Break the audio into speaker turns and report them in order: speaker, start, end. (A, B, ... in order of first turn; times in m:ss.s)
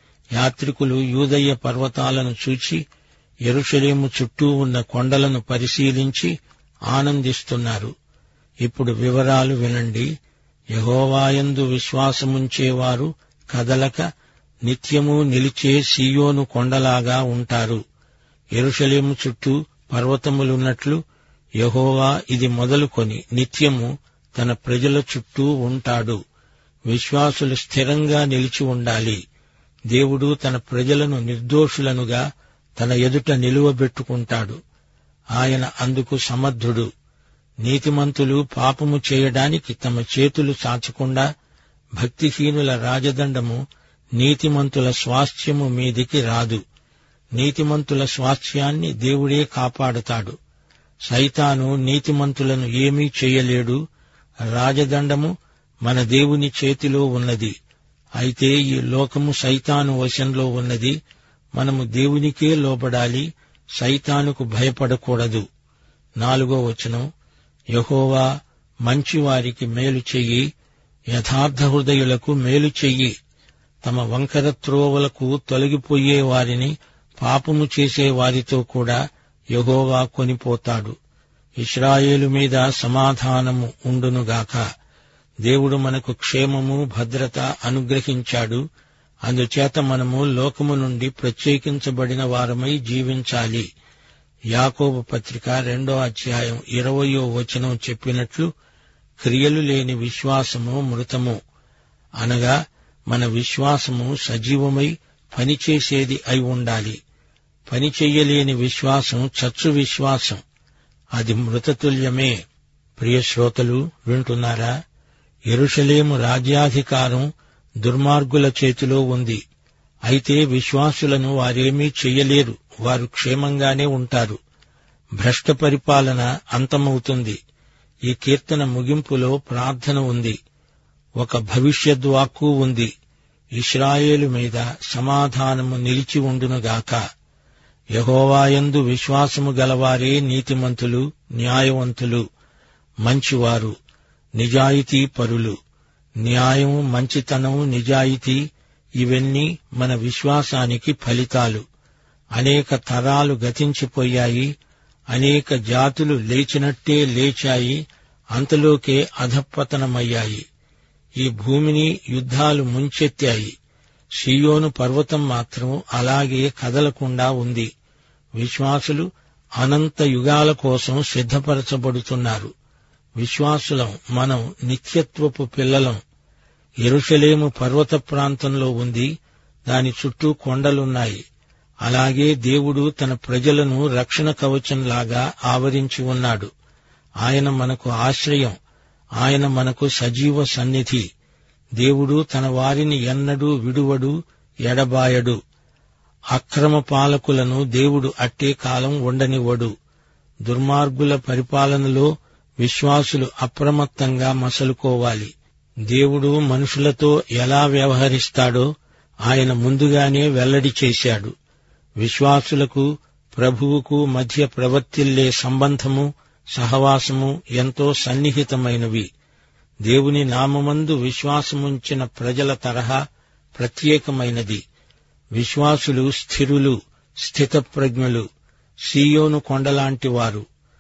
0:00.4-0:02.8 A
0:03.5-0:06.3 A
0:06.9-0:07.9 A
0:08.6-0:10.1 A
0:10.7-0:14.1 A
0:14.7-0:17.8 A
0:18.6-0:21.0 A
0:21.6-0:26.2 A
0:26.9-0:29.2 A
0:29.9-0:32.2 A
0:32.8-0:34.6 A
0:35.4-0:36.9 A
0:37.6-0:41.3 A
0:42.0-0:43.6 A
0:44.2-0:46.6 A
0:47.4-0:50.4 A
0:51.1-0:53.8 A
0:54.5-0:55.3 A
0:55.8-0:57.5 A
0:58.2-1:01.0 A
1:01.6-1:05.4 A
1:06.2-1:07.1 A
1:07.7-1:08.3 A
1:08.9-1:10.5 A
1:11.1-1:13.1 A
1:13.8-1:19.0 A
1:19.5-1:21.0 A
1:21.6-1:24.6 A
1:25.4-1:28.6 A
1:29.3-1:33.7 A
1:34.5-1:38.5 A
1:39.2-1:41.4 A
1:42.2-1:47.0 A
1:47.7-1:50.4 A
1:51.2-1:52.4 A
1:53.0-1:54.7 A
1:55.5-1:57.3 A
1:57.8-1:59.4 A
2:00.1-2:04.4 A
2:05.2-2:07.4 A
2:08.1-2:10.4 A
2:11.2-2:12.9 A
2:13.6-2:17.0 A
2:18.0-2:22.2 A
2:23.0-2:23.7 A
2:24.4-2:25.6 A
2:26.2-2:28.4 A
2:29.0-2:31.6 A
2:32.4-2:34.5 A
2:35.1-2:37.8 A
2:38.3-2:40.4 A
2:41.2-2:43.5 A
2:44.2-2:47.7 A
2:48.4-2:49.1 A
2:49.6-2:52.5 A
2:53.2-2:56.0 A
2:56.8-2:59.1 A
2:59.7-3:01.2 A
3:01.8-3:06.5 A
3:07.2-3:08.6 A
3:09.2-3:11.1 A
3:11.8-3:14.1 A
3:14.7-3:15.4 A
3:16.3-3:19.7 A
3:20.5-3:25.3 A
3:25.9-3:28.7 A
3:29.3-3:31.3 A
3:32.0-3:39.1 A
3:39.9-3:43.0 A
3:43.6-3:44.6 A
3:45.4-3:48.2 A
3:48.9-3:50.4 A